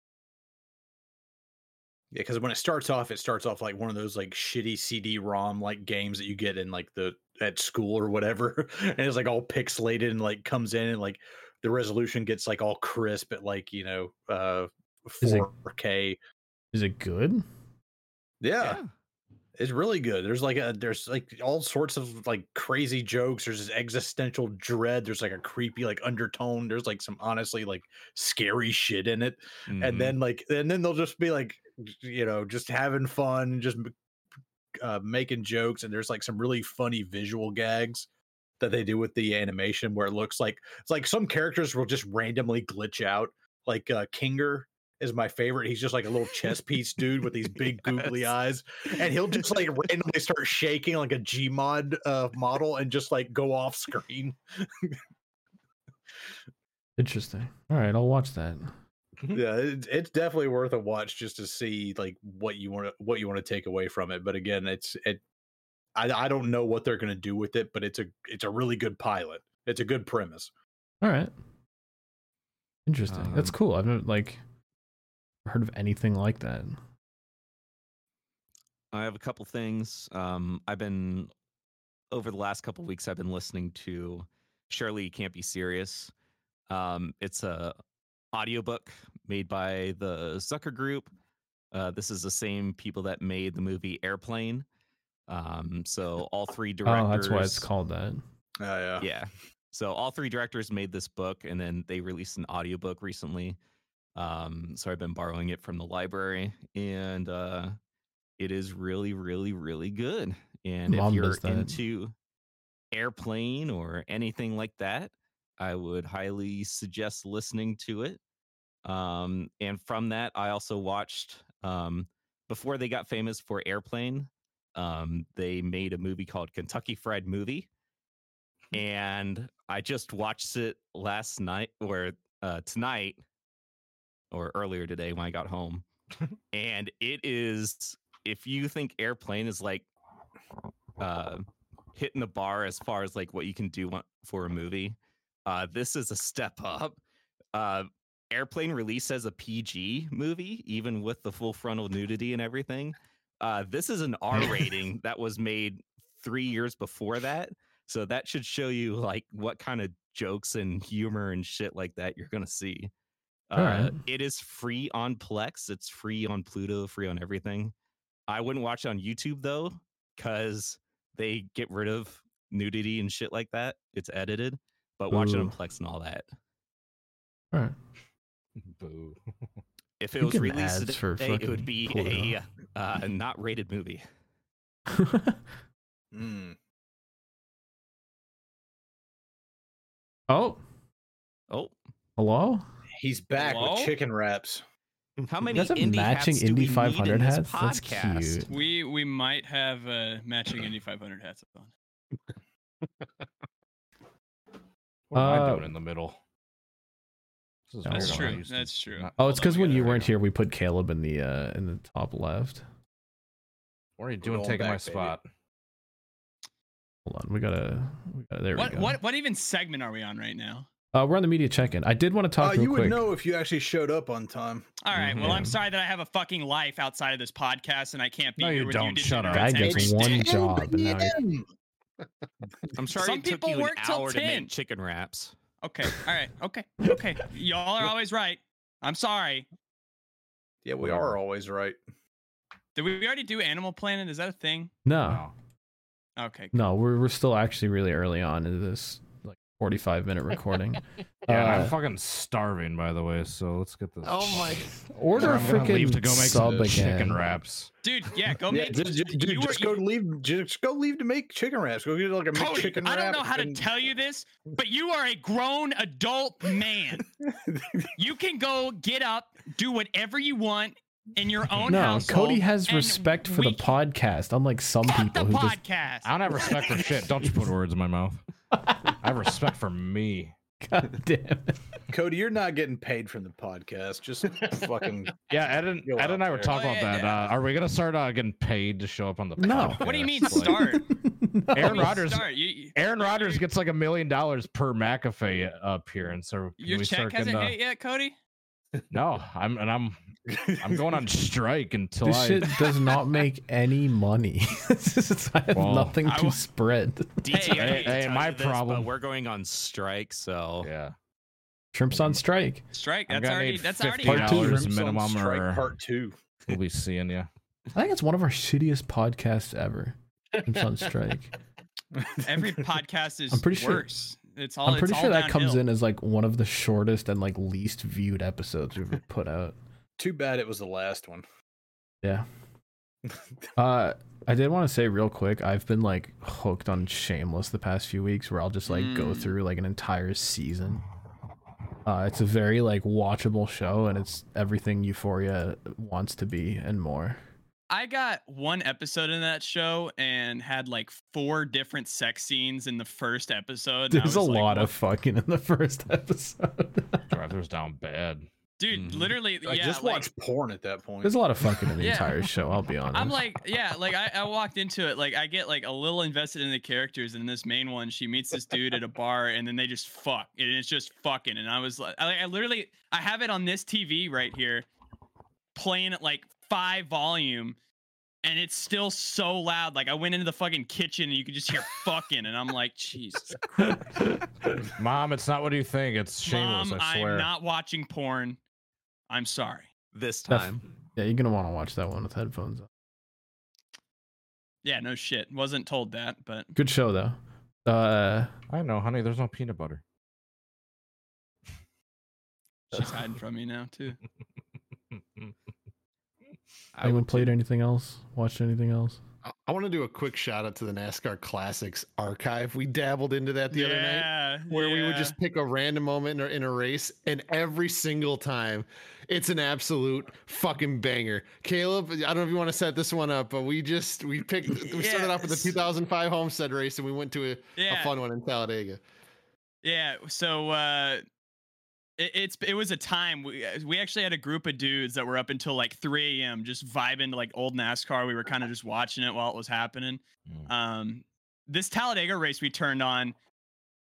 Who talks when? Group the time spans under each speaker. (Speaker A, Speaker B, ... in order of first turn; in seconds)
Speaker A: 2.1-16.2, 18.4-18.8, 19.6-33.9, 34.8-38.1, 38.6-55.0, 59.3-65.2, 66.0-70.5, 98.6-99.1, 186.1-186.6, 193.0-194.6, 214.2-215.1, 222.4-224.7, 230.0-231.5, 240.7-241.8, 255.2-256.7, 258.5-263.6, 267.2-267.9, 281.9-285.2, 285.8-286.6, 300.3-300.8, 314.2-316.2, 322.0-322.6, 330.0-331.2, 359.4-361.1
Speaker B: 15.2-15.5, 16.7-17.4, 57.0-58.7, 71.0-71.3, 72.9-74.4, 75.5-76.8, 96.9-98.2, 110.9-111.8, 163.6-163.9, 175.1-175.5, 180.2-182.4, 184.9-185.4, 190.3-190.6, 192.2-192.7, 195.5-198.5, 205.2-205.7, 207.9-208.4, 209.2-212.6, 217.1-219.0, 220.9-223.1, 225.2-225.6, 229.3-231.2, 244.8-245.3, 246.5-251.8, 254.9-257.2, 271.7-275.6, 278.5-279.0, 280.6-281.8, 289.4-292.0, 302.0-307.2, 311.7-312.6, 314.0-314.7, 317.7-321.3, 323.3-323.9, 324.6-329.6, 333.6-340.8, 341.9-347.2, 353.9-357.1, 361.0-363.2, 390.3-392.7, 396.6-398.3, 406.8-409.0
Speaker C: 18.6-18.9, 29.7-30.2, 78.9-81.3, 82.1-86.1, 86.7-87.8, 88.3-91.1, 91.7-94.7, 95.3-97.7, 99.0-103.6, 104.2-107.8, 108.4-112.1, 112.9-118.2, 118.8-127.7, 128.7-133.2, 134.3-135.9, 136.5-139.9, 141.0-147.0, 147.5-162.9, 163.5-167.7, 168.3-176.3, 180.0-184.0, 195.3-198.5, 224.9-225.5, 232.8-235.3, 307.2-310.7, 358.7-359.2, 389.9-390.6, 406.8-407.3
Speaker D: 178.6-179.2, 205.1-206.2, 207.7-210.1, 214.0-215.3, 228.4-230.0, 240.8-241.2, 245.1-245.3, 251.3-257.7, 276.1-278.2, 278.9-280.3, 285.3-290.8, 291.5-297.6, 298.9-300.0, 300.6-302.7, 305.5-306.0, 307.5-308.9, 310.6-310.9, 311.9-312.2, 313.1-315.7, 316.5-317.3, 357.1-358.3, 384.6-387.3, 398.5-399.8
Speaker E: 193.3-194.0, 198.5-201.7, 207.9-209.9, 218.6-220.7, 224.8-230.3, 233.0-234.5, 235.6-239.5, 242.8-244.7, 246.2-246.6, 257.8-259.8, 262.3-267.1, 268.0-273.8, 274.9-276.1, 286.5-287.3, 289.8-290.9, 291.6-293.4, 296.6-298.2, 306.0-306.4, 307.3-308.0, 312.7-314.4, 322.2-325.6, 338.7-339.4, 347.7-354.7, 358.6-360.1, 361.8-362.2, 362.9-374.7, 375.6-377.6, 378.2-383.4, 386.2-388.4, 389.1-389.7, 394.6-396.5, 402.7-404.0, 413.5-415.2, 424.5-425.6, 427.6-428.0, 429.6-431.0, 432.0-443.2
Speaker F: 254.0-254.9, 409.3-428.8